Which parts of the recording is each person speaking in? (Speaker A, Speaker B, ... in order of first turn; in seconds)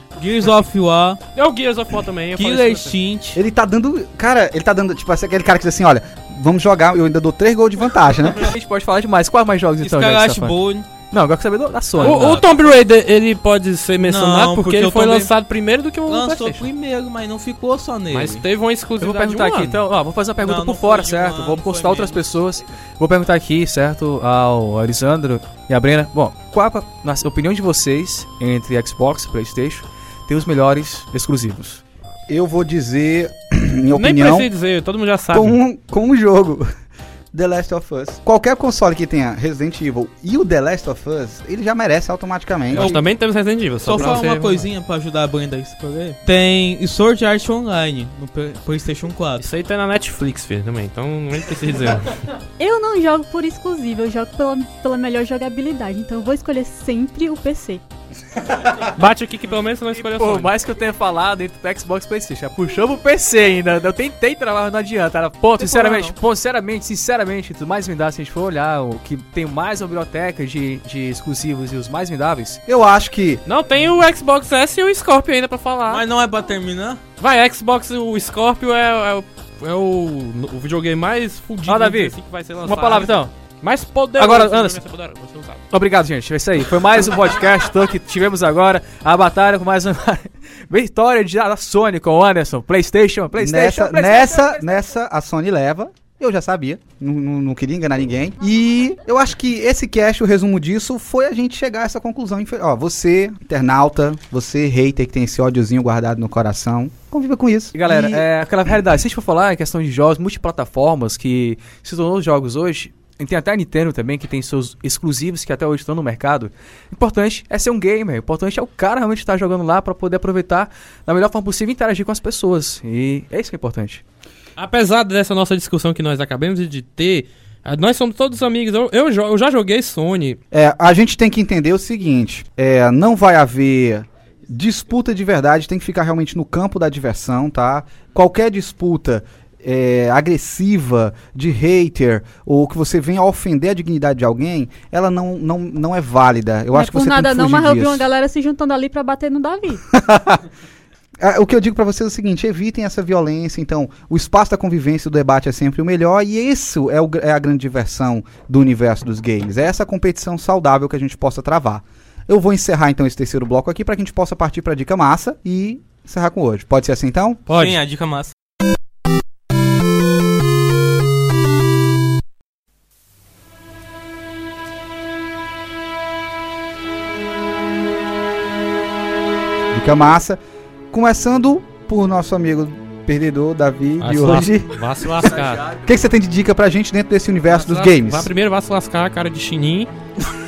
Speaker A: 0.2-1.2, 2.4-3.4, 9.8-10.9, 12.0-12.5, 14.0-15.3, 16.1-18.4, 20.4-22.3, 42.7-43.0, 43.8-49.4, 65.6-66.1, 75.9-77.0, 167.5-168.3
Speaker B: 1.3-3.0, 12.0-16.7, 18.1-19.8, 33.9-35.6, 42.7-44.7, 49.4-52.2, 58.7-60.5, 73.5-76.0, 77.2-85.6, 124.6-130.4, 184.0-185.7, 187.5-189.9
Speaker C: 3.4-8.5, 32.3-34.5, 35.3-36.7, 37.3-43.0, 72.7-73.4, 93.3-108.2, 130.5-148.1, 149.9-150.4, 151.2-167.5, 179.7-180.4, 180.9-184.8, 185.8-188.3
Speaker D: 8.3-10.6, 11.1-12.4, 19.0-31.8, 60.0-72.6, 81.7-83.3, 84.2-84.8, 85.7-94.3, 107.7-124.0, 185.2-185.9
Speaker E: 52.6-57.8, 146.7-149.8